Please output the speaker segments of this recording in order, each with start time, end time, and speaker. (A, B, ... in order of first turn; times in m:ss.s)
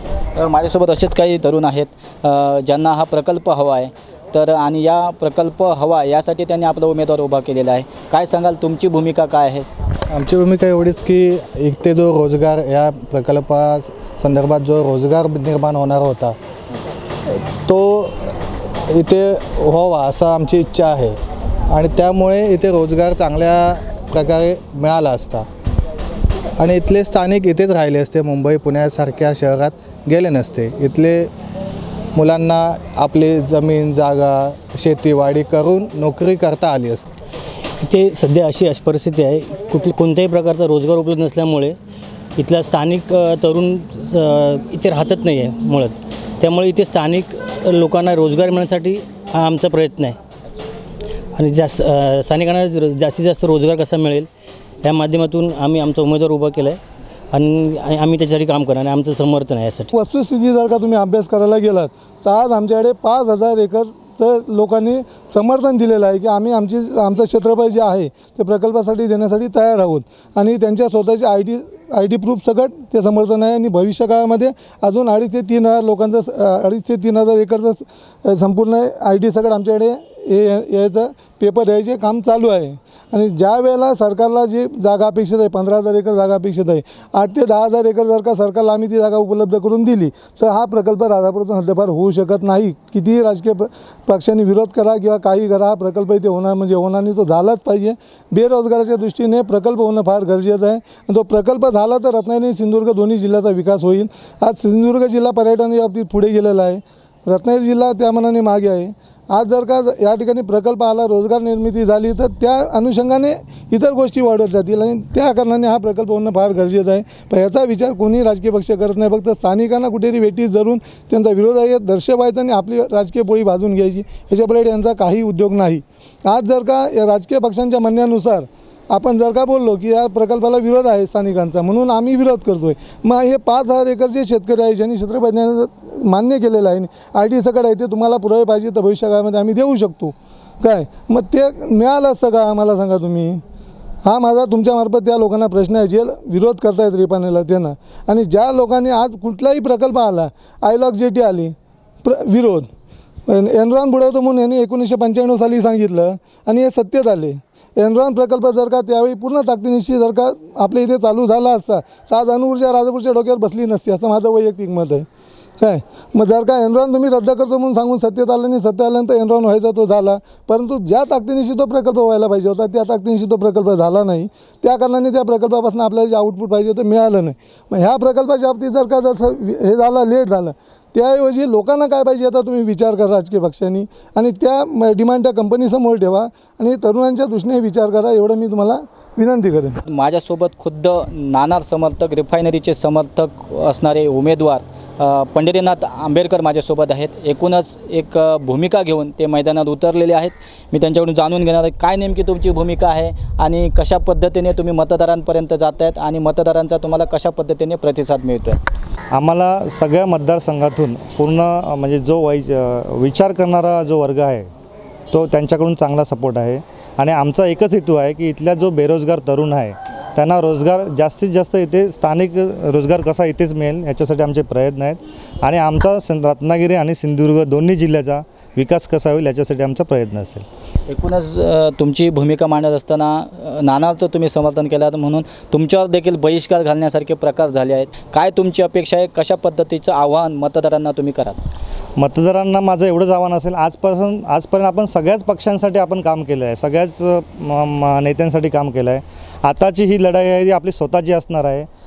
0:00.3-0:09.6 A
0:10.1-0:16.4 B
0:17.4-0:21.2 B
0:21.7-0:25.5 B
0:26.6-0:31.3 B
0:32.1-0:37.1 B
0:37.9-0:41.7 C
0:42.4-0:45.9 C
0:46.4-0:50.1 C
0:51.4-0:54.2 C
0:54.9-0:56.7 C
0:57.3-0:59.8 C
0:59.9-2:23.4 D
2:24.0-2:32.7 D
2:33.3-2:45.0 D
2:45.6-3:09.8 D
3:09.9-3:28.6 A
3:29.2-3:34.5 E
3:35.1-3:39.7 E
3:39.0-3:39.4 D
3:40.3-3:45.0 E
3:45.5-3:48.2 E
3:48.7-3:50.3 E
3:50.9-4:01.4 A
4:02.0-4:06.9 E
4:04.7-4:05.3 D
4:07.9-4:11.6 E